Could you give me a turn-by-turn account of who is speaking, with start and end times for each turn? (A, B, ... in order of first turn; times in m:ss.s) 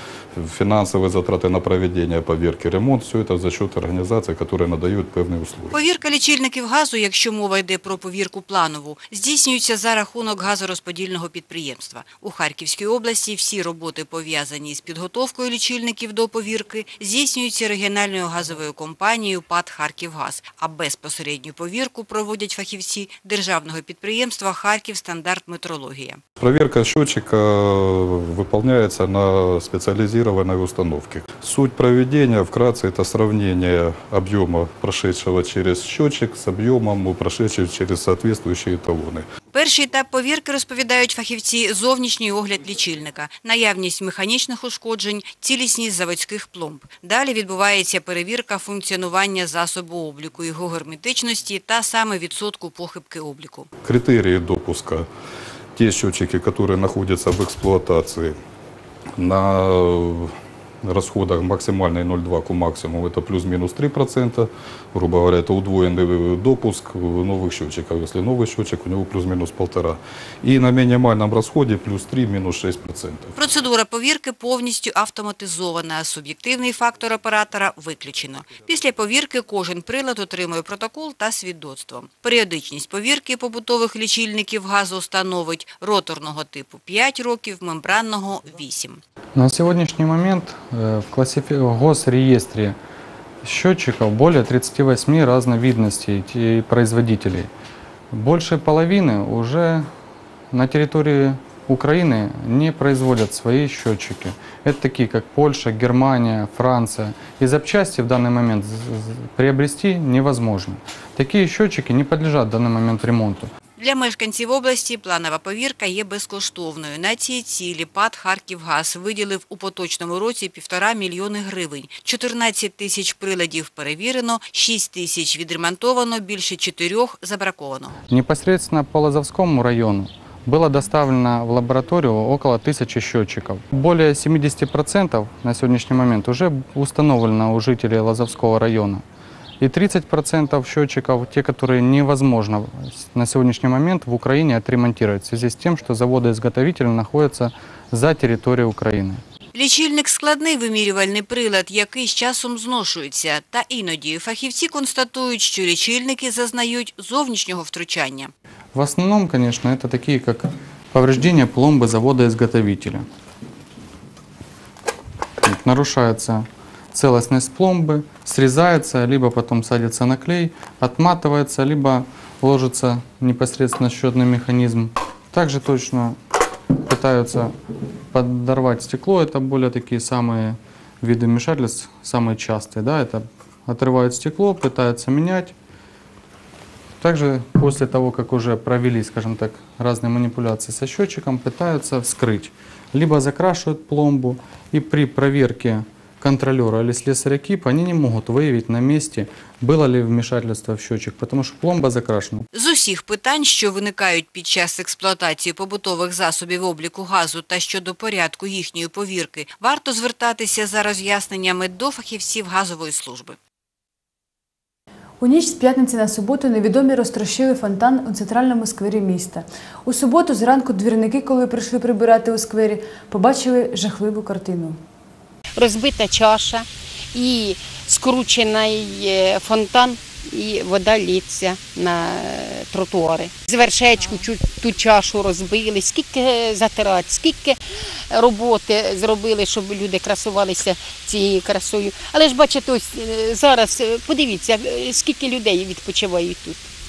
0:00.3-0:05.8 A
0:05.7-0:26.2 B
0:26.4-0:39.3 A
0:39.5-0:53.7 B
0:53.8-0:55.1 A
0:55.7-0:58.4 A
0:59.2-1:13.4 A
1:13.4-1:29.0 B
1:29.4-1:32.8 C
1:33.4-1:37.5 C
1:38.1-1:39.9 C
1:40.5-1:53.5 C
1:53.8-2:07.9 B
2:08.1-2:19.0 C
2:19.6-2:29.2 C
2:29.5-2:38.3 B
2:38.7-2:43.1 C
2:45.4-2:56.2 C
2:56.8-2:57.5 C
2:58.1-3:05.5 C
3:07.0-3:22.4 C
3:22.5-3:33.4 B
3:35.2-3:44.8 D
3:45.5-3:57.6 E
3:58.1-4:06.7 E